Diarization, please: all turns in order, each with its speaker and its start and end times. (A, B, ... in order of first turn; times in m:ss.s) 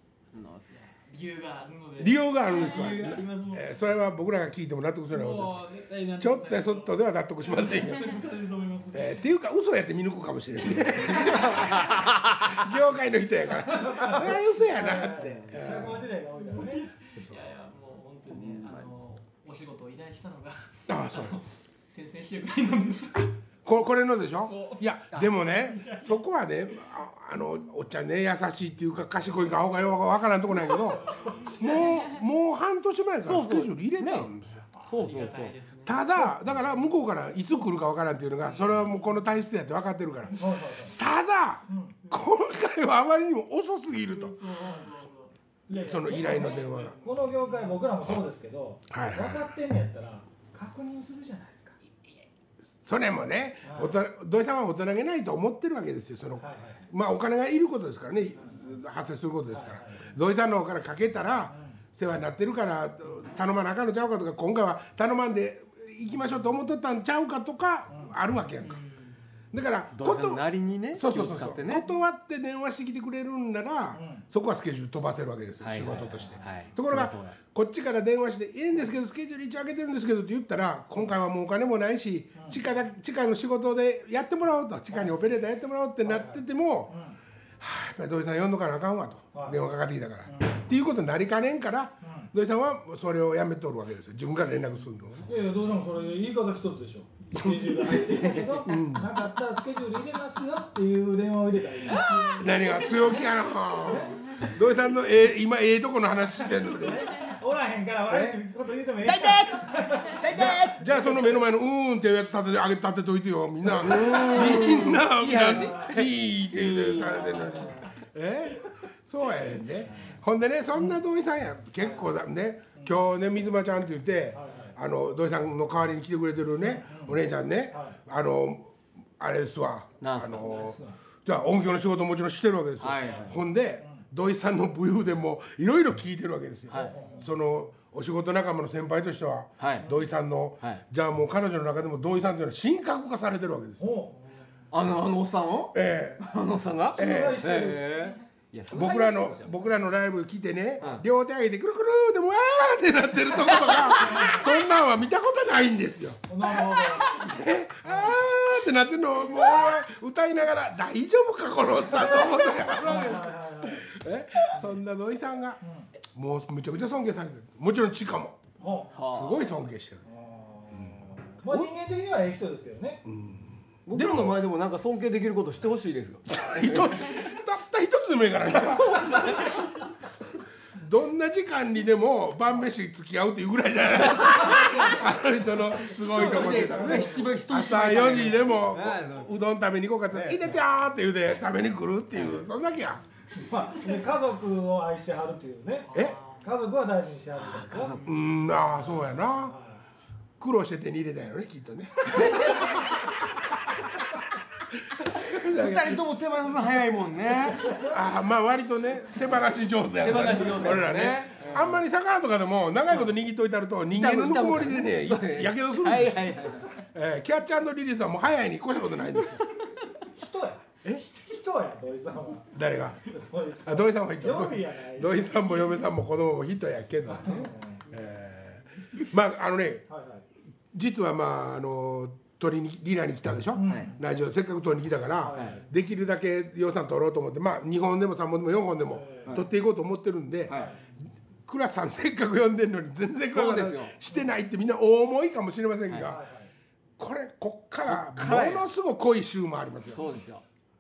0:00.3-0:01.1 A
0:00.7-0:03.7 B
0:02.0-0:05.6 C
0:05.1-0:09.2 B
0:06.2-0:08.2 C
0:08.9-0:16.0 C
0:11.2-0:12.3 A
0:13.6-0:16.9 D
0:16.6-0:23.4 B
0:18.3-0:18.9 A
0:20.9-0:21.4 C
0:23.6-0:34.6 C
0:24.4-0:24.8 B
0:25.6-0:26.1 B
0:30.9-0:32.0 B
0:33.2-0:34.3 A
0:34.7-0:36.7 B
0:34.8-0:35.6 A
0:35.8-0:44.4 C
0:38.4-0:39.2 B
0:40.4-0:41.0 D
0:41.7-0:42.0 D
0:44.0-0:45.3 B
0:45.7-0:51.8 D
0:45.7-0:47.0 C
0:46.1-0:47.9 B
0:48.9-0:49.4 C
0:52.8-1:08.8 C
0:53.6-0:54.0 D
0:56.4-0:56.9 D
0:59.5-1:00.1 D
1:01.5-1:01.8 D
1:08.6-1:09.2 B
1:09.5-1:27.0 C
1:09.9-1:11.8 A
1:13.9-1:14.2 D
1:15.6-1:17.4 A
1:15.9-1:16.4 D
1:22.3-1:22.6 D
1:26.0-1:27.2 D
1:27.6-1:35.3 C
1:29.3-1:29.6 D
1:30.2-1:30.6 D
1:32.0-1:32.3 D
1:35.2-1:42.1 D
1:37.4-1:37.9 C
1:38.0-1:38.6 A
1:38.6-1:39.2 C
1:41.9-1:42.4 A
1:42.2-1:47.3 C
1:43.8-1:44.4 D
1:46.6-1:51.4 D
1:48.1-1:48.4 A
1:49.0-1:51.0 A
1:50.3-2:23.8 C
1:53.7-1:57.6 A
1:55.4-1:56.0 D
1:57.1-1:57.9 D
1:59.9-2:00.2 D
2:04.3-2:04.8 D
2:06.6-2:07.2 D
2:07.7-2:08.0 D
2:10.0-2:10.6 A
2:10.4-2:11.0 D
2:12.8-2:13.4 A
2:13.0-2:14.0 D
2:16.7-2:16.9 A
2:16.7-2:17.3 D
2:19.6-2:19.9 A
2:23.8-2:24.2 D
2:24.1-2:24.6 B
2:24.7-2:29.3 A
2:25.7-2:26.3 C
2:26.9-2:27.5 C
2:26.9-2:28.1 D
2:28.7-2:45.6 C
2:28.7-2:29.5 D
2:30.8-2:31.0 A
2:34.0-2:34.4 D
2:36.3-2:37.2 D
2:37.8-2:38.2 D
2:41.9-2:43.9 D
2:45.6-2:45.9 D
2:46.1-2:48.4 C
2:48.6-2:49.0 D
2:48.9-2:49.5 A
2:49.0-2:50.0 C
2:50.0-2:53.0 D
2:51.4-2:51.7 C
2:53.0-2:54.4 C
2:53.8-2:57.0 A
2:56.3-2:59.6 C
2:59.0-2:59.4 A
3:00.7-3:13.0 C
3:06.0-3:09.3 A
3:06.1-3:07.3 D
3:10.1-3:10.5 A
3:12.1-3:12.4 A
3:13.3-3:18.0 D
3:15.9-3:16.4 B
3:17.4-3:18.1 A
3:17.9-3:18.2 B
3:18.0-3:19.6 C
3:19.4-3:19.8 D
3:20.4-3:26.0 C
3:25.2-3:27.9 A
3:27.7-3:39.4 C
3:30.0-3:31.8 A
3:33.9-3:36.7 A
3:40.1-3:45.2 D
3:42.5-3:43.1 C
3:43.6-3:49.8 C
3:47.1-3:47.8 D
3:49.9-3:50.2 D
3:50.7-4:00.6 C
3:53.5-3:54.0 D
3:55.2-3:55.6 D
3:58.8-3:59.4 D
4:00.5-4:00.7 A
4:00.5-4:00.8 D
4:01.4-4:06.2 C
4:03.3-4:03.9 A
4:06.0-4:06.5 D
4:07.0-4:10.1 C
4:07.8-4:08.6 A
4:09.9-4:10.4 A